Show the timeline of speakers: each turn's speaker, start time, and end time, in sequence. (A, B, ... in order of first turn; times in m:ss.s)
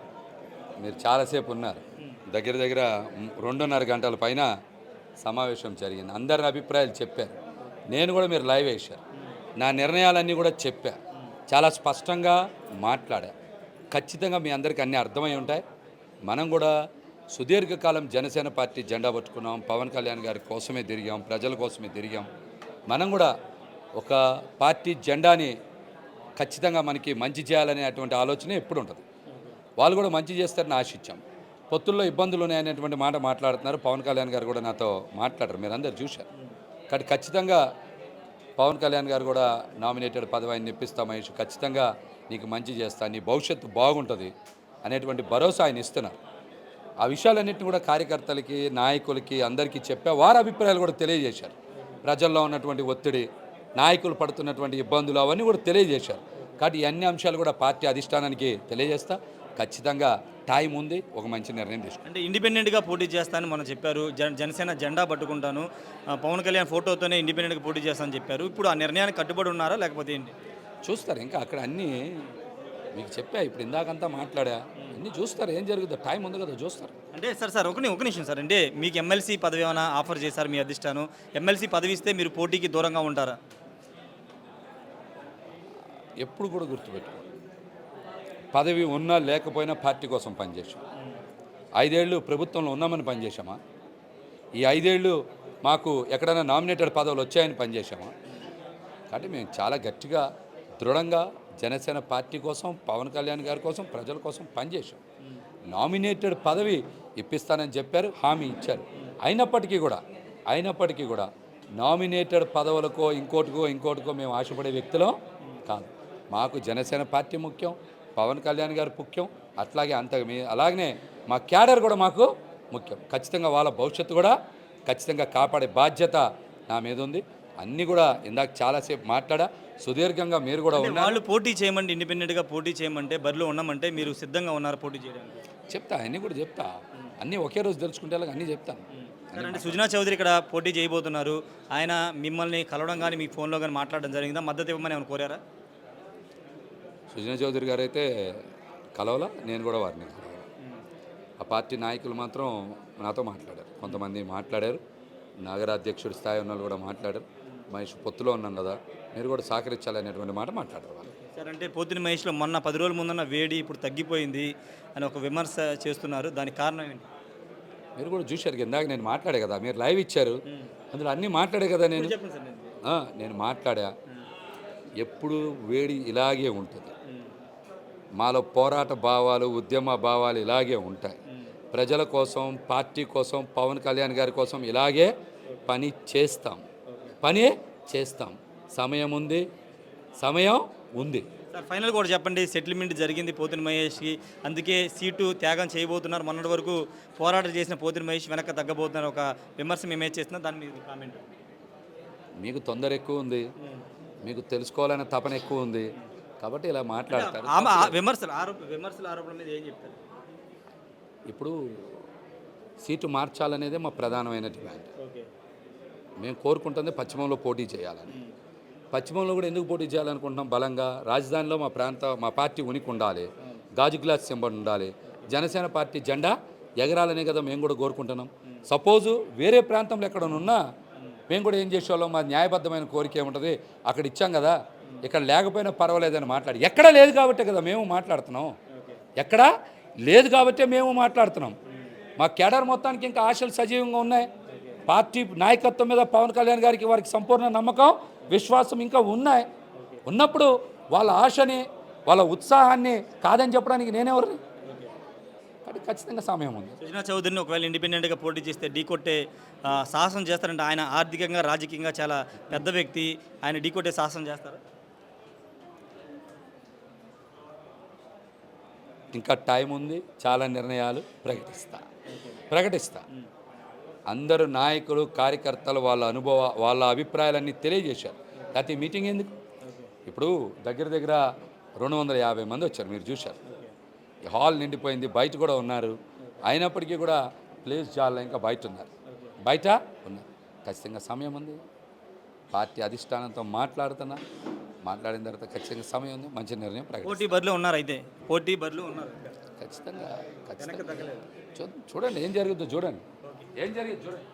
0:00.8-0:04.5 A
0:05.2-0:07.4 A
0:07.9-0:09.0 A
0:09.6-0:11.0 A
0:11.5-0:13.3 A
0:13.9-0:15.6 A
0:16.3-0:16.7 A
0:17.3-0:22.3 A
0:22.9-0:23.3 A
0:24.0-0:25.5 A
0:26.4-0:29.0 A
0:29.8-0:36.3 A
0:36.9-0:37.6 A
0:38.6-0:44.3 A
0:44.8-0:46.2 A
0:47.0-0:53.3 A
0:53.8-1:02.0 A
1:02.0-1:10.4 B
1:10.8-1:12.2 A
1:12.9-1:16.9 A
1:17.1-1:23.4 B
1:26.2-1:27.3 A
1:28.5-1:30.8 A
1:31.8-1:33.6 A
1:34.6-1:38.1 A
1:39.1-1:40.2 A
1:40.8-1:45.0 A
1:45.7-1:55.1 A
1:55.7-2:04.3 A
2:04.9-2:11.2 A
2:10.7-2:15.4 B
2:15.7-2:19.8 A
2:18.9-2:25.4 B
2:27.1-2:30.5 A
2:31.4-2:34.8 A
2:35.4-2:41.1 A
2:41.1-2:47.1 B
2:48.0-2:50.4 A
2:50.9-2:52.2 A
2:51.9-2:52.7 B
2:52.9-2:53.9 A
2:55.0-2:56.9 A
2:57.1-2:57.3 B
2:58.2-3:01.2 A
3:01.7-3:05.1 A
3:05.7-3:06.6 A
3:06.9-3:07.2 B
3:07.2-3:09.4 A
3:10.2-3:11.2 A
3:11.5-3:21.2 B
3:22.4-3:23.5 A
3:24.2-3:25.9 A
3:26.4-3:28.0 A
3:27.1-3:30.0 B
3:31.3-3:32.0 A
3:32.8-3:34.9 A
3:35.0-3:35.3 B
3:36.2-3:38.1 A
3:38.9-3:50.6 A
3:51.3-3:58.5 A
3:58.7-3:59.0 B
3:59.2-3:59.5 A
4:00.1-4:01.6 A
4:02.2-4:04.3 A
4:04.5-4:04.8 B
4:04.9-4:09.4 A
4:10.1-4:14.4 A
4:14.6-4:14.9 B
4:15.6-4:16.8 A
4:16.8-4:24.6 B
4:29.1-4:31.8 A
4:32.1-4:32.4 B
4:32.5-4:33.0 A
4:34.1-4:39.3 A
4:38.4-4:38.7 B
4:39.6-4:39.9 B
4:40.1-4:41.2 A
4:41.8-4:43.4 A
4:43.4-4:43.7 B
4:44.3-4:45.9 A
4:46.5-4:48.9 A
4:49.1-4:49.3 B
4:49.4-4:51.6 A
4:52.5-4:54.2 A
4:54.8-4:57.4 A
4:57.0-4:59.3 B
4:59.6-5:00.9 A
5:00.6-5:01.2 B
5:01.6-5:03.0 A
5:03.2-5:03.5 B
5:03.6-5:04.2 A